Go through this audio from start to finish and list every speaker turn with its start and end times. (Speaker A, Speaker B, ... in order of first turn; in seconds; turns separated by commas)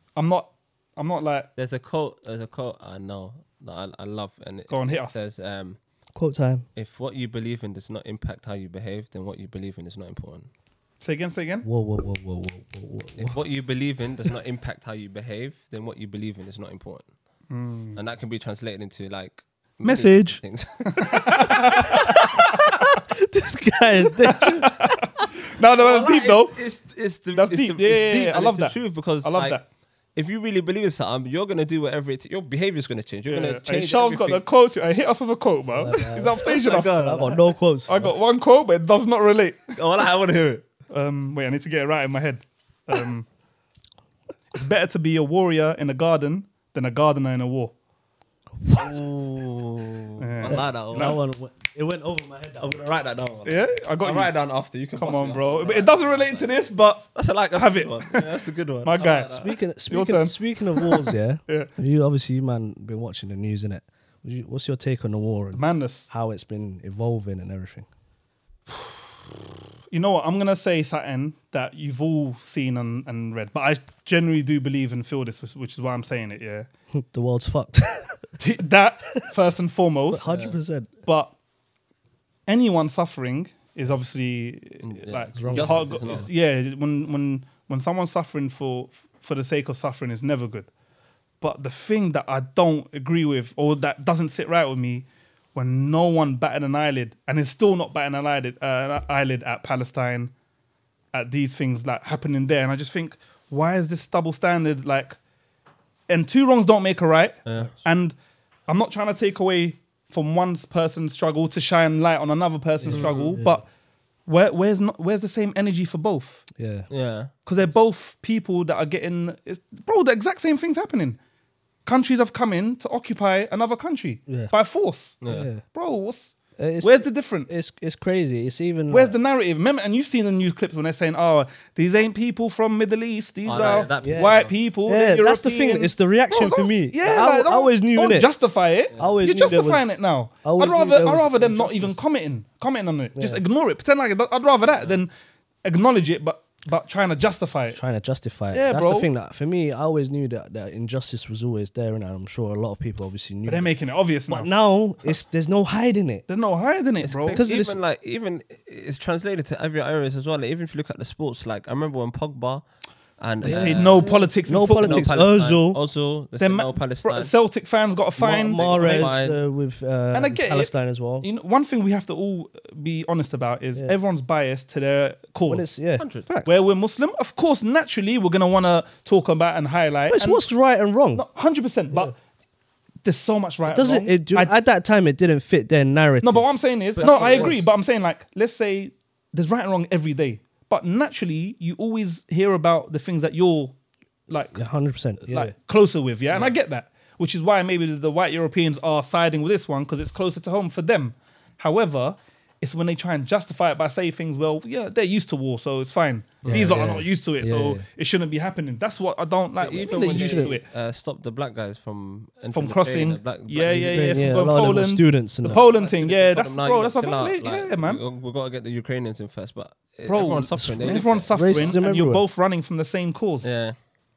Speaker A: 0.2-1.5, Speaker B: 1.6-5.8, Speaker A: 4.7-5.2, Speaker C: 6.2-6.7, Speaker B: 6.8-10.5, Speaker A: 11.0-11.7, Speaker C: 11.6-13.4, Speaker B: 13.2-17.1, Speaker A: 17.5-18.0, Speaker B: 17.9-22.4, Speaker A: 19.8-22.7, Speaker C: 22.8-24.7, Speaker A: 24.2-26.6, Speaker B: 25.8-29.6, Speaker A: 27.3-29.6, Speaker B: 30.1-34.4, Speaker A: 33.3-37.3, Speaker C: 35.7-38.1, Speaker B: 36.3-37.4, Speaker A: 37.9-39.7, Speaker B: 39.7-40.6, Speaker A: 40.9-43.3, Speaker A: 44.5-47.7, Speaker C: 48.6-48.9, Speaker B: 48.7-51.2, Speaker A: 50.2-51.2, Speaker C: 50.5-52.8, Speaker B: 52.6-56.6, Speaker A: 53.5-54.3, Speaker A: 55.0-58.3, Speaker B: 57.1-59.5, Speaker A: 58.8-61.7, Speaker C: 59.0-67.9, Speaker A: 65.5-66.1, Speaker A: 69.9-76.7, Speaker C: 77.0-78.4, Speaker A: 78.4-80.3, Speaker C: 80.1-81.0, Speaker B: 80.2-80.6, Speaker A: 81.1-81.3, Speaker A: 82.5-90.7, Speaker B: 84.8-86.3, Speaker C: 85.3-86.3, Speaker A: 91.4-100.3, Speaker A: 101.1-105.2, Speaker A: 106.1-108.1, Speaker B: 107.5-107.7, Speaker A: 108.7-113.7, Speaker C: 112.8-113.6, Speaker B: 112.9-113.4, Speaker A: 114.3-116.5, Speaker C: 116.6-116.9, Speaker B: 116.9-117.3, Speaker A: 117.5-121.2, Speaker A: 121.9-127.5, Speaker B: 125.2-125.5, Speaker C: 125.3-125.6, Speaker C: 126.6-129.2, Speaker A: 128.9-145.1, Speaker B: 133.5-134.5, Speaker C: 133.5-138.3, Speaker B: 138.9-139.2, Speaker C: 139.0-142.0, Speaker C: 143.2-143.4, Speaker B: 144.7-145.0, Speaker A: 145.6-147.8, Speaker C: 147.7-153.7, Speaker A: 148.5-149.1, Speaker A: 153.5-154.5, Speaker C: 154.3-156.2, Speaker A: 156.3-157.4, Speaker B: 157.0-162.7, Speaker C: 157.3-157.8, Speaker B: 163.2-167.3, Speaker A: 163.4-165.3, Speaker C: 163.4-165.8, Speaker A: 166.4-169.2, Speaker C: 168.2-171.3, Speaker B: 168.5-169.4, Speaker A: 170.1-175.8, Speaker C: 175.5-176.5, Speaker B: 176.0-176.3, Speaker A: 176.4-180.4, Speaker C: 180.1-181.2, Speaker A: 181.2-182.1, Speaker A: 183.0-184.5, Speaker C: 183.7-187.7, Speaker A: 186.2-193.8, Speaker B: 187.0-187.6, Speaker A: 194.3-194.6, Speaker C: 194.5-195.5, Speaker A: 195.3-210.7, Speaker B: 196.3-196.6, Speaker B: 206.4-206.8, Speaker C: 206.5-207.8, Speaker B: 209.6-214.4, Speaker C: 209.9-210.6, Speaker A: 212.5-218.0, Speaker C: 213.7-215.6, Speaker B: 215.4-221.8, Speaker A: 220.1-223.5, Speaker C: 220.6-222.2, Speaker B: 223.4-223.8